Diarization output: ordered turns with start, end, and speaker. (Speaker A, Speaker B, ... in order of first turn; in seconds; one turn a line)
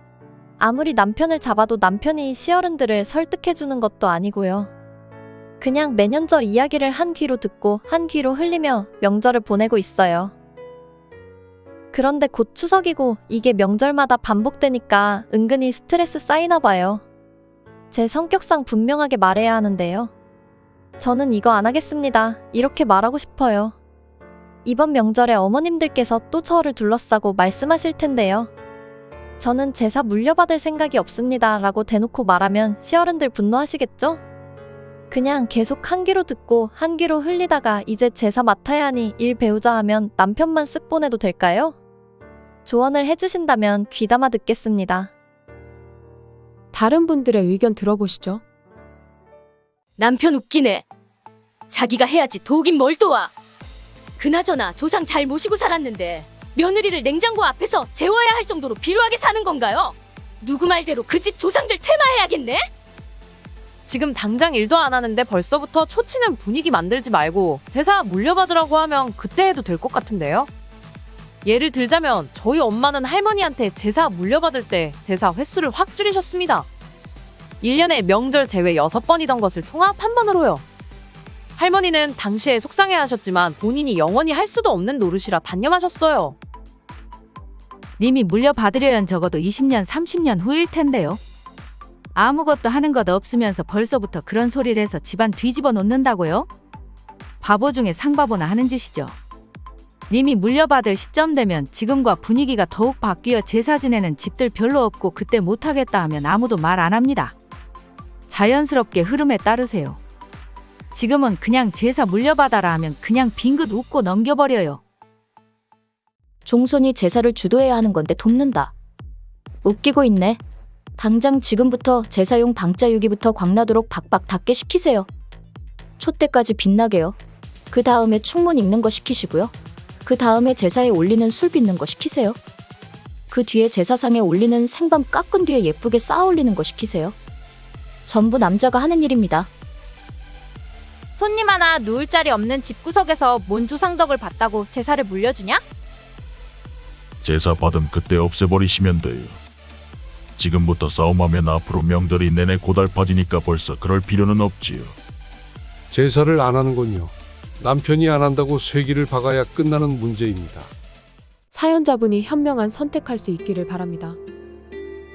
Speaker A: 0.6-4.7
Speaker A: 5.6-10.3
Speaker A: 11.9-17.0
Speaker A: 17.9-20.1
Speaker A: 21.0-23.8
Speaker A: 24.6-28.5
Speaker A: 29.4-34.2
Speaker A: 35.1-41.8
Speaker A: 42.6-45.1
Speaker B: 46.7-48.4
Speaker C: 50.0-50.8
Speaker C: 51.7-53.3
Speaker C: 54.2-62.7
Speaker D: 63.9-70.5
Speaker D: 71.4-76.7
Speaker D: 77.6-80.6
Speaker D: 81.5-86.3
Speaker E: 88.0-91.2
Speaker E: 92.1-96.5
Speaker E: 97.4-99.1
Speaker E: 100.1-107.3
Speaker E: 108.3-110.0
Speaker E: 110.9-114.8
Speaker F: 116.4-118.7
Speaker F: 119.6-120.4
Speaker F: 121.0-125.1
Speaker F: 126.0-127.2
Speaker F: 127.7-129.5
Speaker F: 130.0-132.4
Speaker F: 133.3-137.2
Speaker F: 138.1-139.5
Speaker G: 141.1-145.6
Speaker H: 147.2-149.4
Speaker H: 150.4-154.9
Speaker I: 155.9-160.7
Speaker B: 161.5-164.2